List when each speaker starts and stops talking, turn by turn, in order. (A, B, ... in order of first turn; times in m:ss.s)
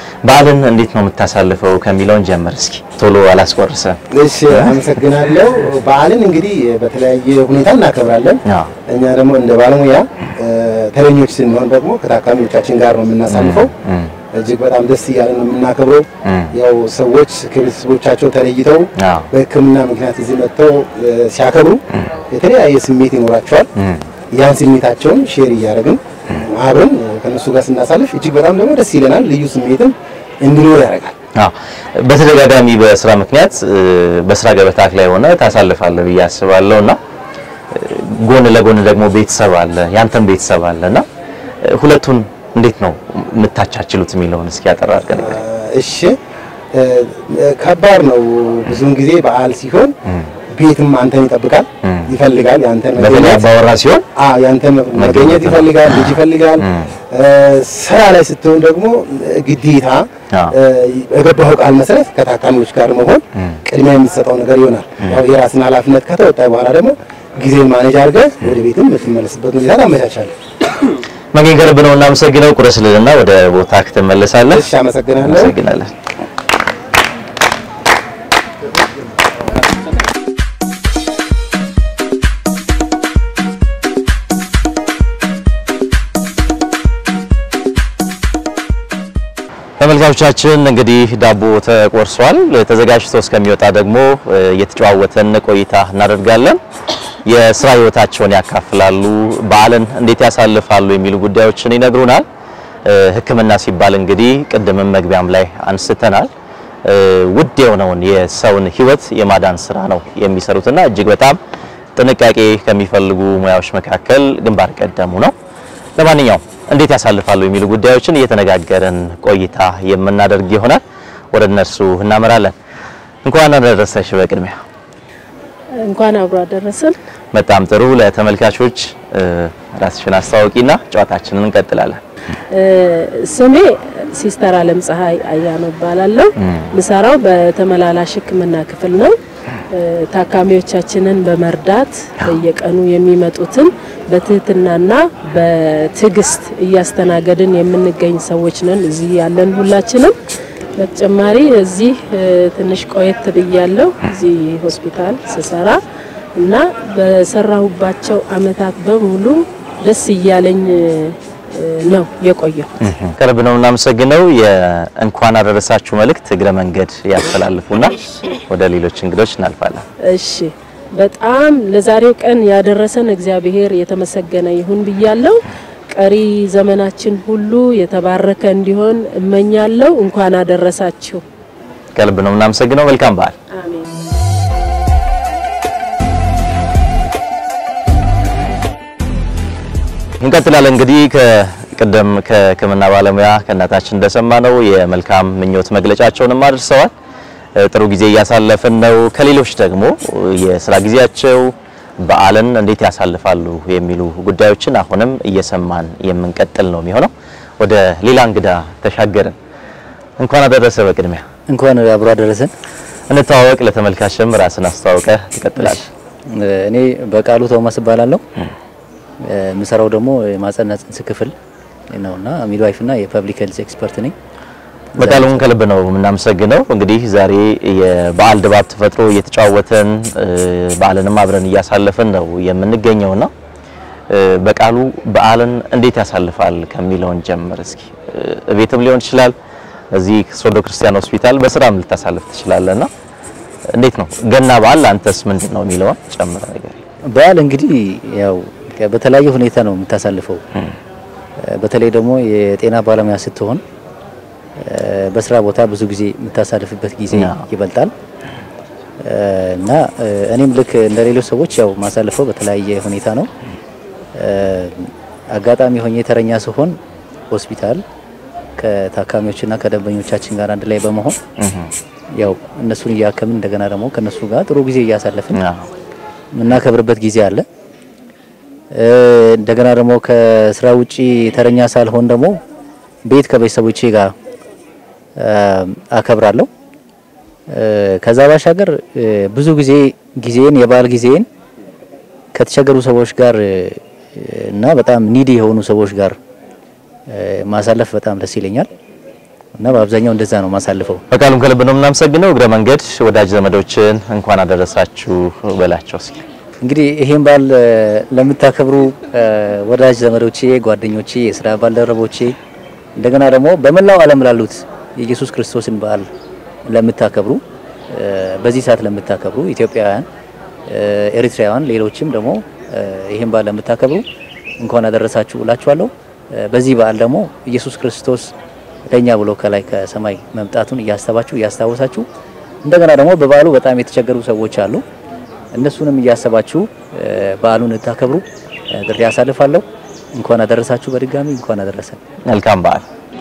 0:00.2-0:04.0 A
0:04.1-0:13.7 B
0:08.4-0:08.7 A
0:13.3-0:14.1 A
0:14.3-0:23.7 B
0:16.2-0:16.5 A
0:19.0-0:19.3 A
0:24.3-0:31.1 B
0:31.3-0:37.0 A
0:37.7-0:41.0 A
0:41.6-0:45.4 A
0:45.1-0:46.2 B
0:46.7-0:49.9 B
0:50.5-0:53.5 B
0:51.8-0:52.1 A
0:53.0-0:54.0 A
0:54.2-1:10.3 B
0:55.0-0:56.1 A
1:11.3-1:14.7 A
1:14.5-1:15.5 B
1:15.2-1:15.9 A
1:29.8-1:36.6 A
1:37.2-1:42.2 A
1:42.8-1:46.3 A
1:46.8-1:51.4 A
1:52.0-1:55.3 A
1:56.0-2:00.8 A
2:01.3-2:02.5 A
2:03.2-2:04.6 A
2:05.8-2:07.0 C
2:07.3-2:12.0 A
2:12.5-2:19.1 C
2:19.7-2:30.1 C
2:30.8-2:35.8 C
2:36.4-2:42.7 C
2:42.8-2:49.8 A
2:50.1-2:55.4 C
2:55.9-3:01.2 C
3:01.9-3:03.3 A
3:03.5-3:03.9 C
3:10.2-3:16.9 A
3:17.6-3:29.4 A
3:30.2-3:31.2 A
3:31.5-3:32.5 D
3:33.1-3:35.9 A
3:36.3-3:38.2 D
3:39.2-3:41.3 D
3:41.9-3:44.1 D
3:45.0-3:45.4 D
3:45.0-3:53.3 A
3:54.1-3:59.4 A
3:59.9-4:02.9 A
4:03.7-4:06.8 A
4:07.1-4:10.4 D
4:11.4-4:13.6 D
4:14.6-4:17.9 D
4:17.2-4:17.5 A
4:19.0-4:23.3 D
4:24.2-4:26.7 D
4:27.3-4:27.8 D
4:28.6-4:31.2 D
4:31.4-4:31.7 A
4:32.2-4:35.4 D
4:35.3-4:35.7 A
4:36.3-4:37.4 D
4:38.7-4:42.4 D
4:43.0-4:44.1 D
4:45.2-4:46.5 D
4:47.5-4:51.2 D
4:52.3-4:56.2 D
4:57.1-4:58.7 D
4:59.6-5:01.0 D
5:01.1-5:06.2 A
5:06.6-5:12.4 D
5:13.0-5:16.1 D
5:16.7-5:20.0 D
5:20.7-5:24.0 D
5:24.6-5:28.3 D
5:28.9-5:32.0 D
5:32.6-5:34.8 D
5:35.5-5:39.6 D
5:40.2-5:42.0 D
5:42.3-5:42.8 A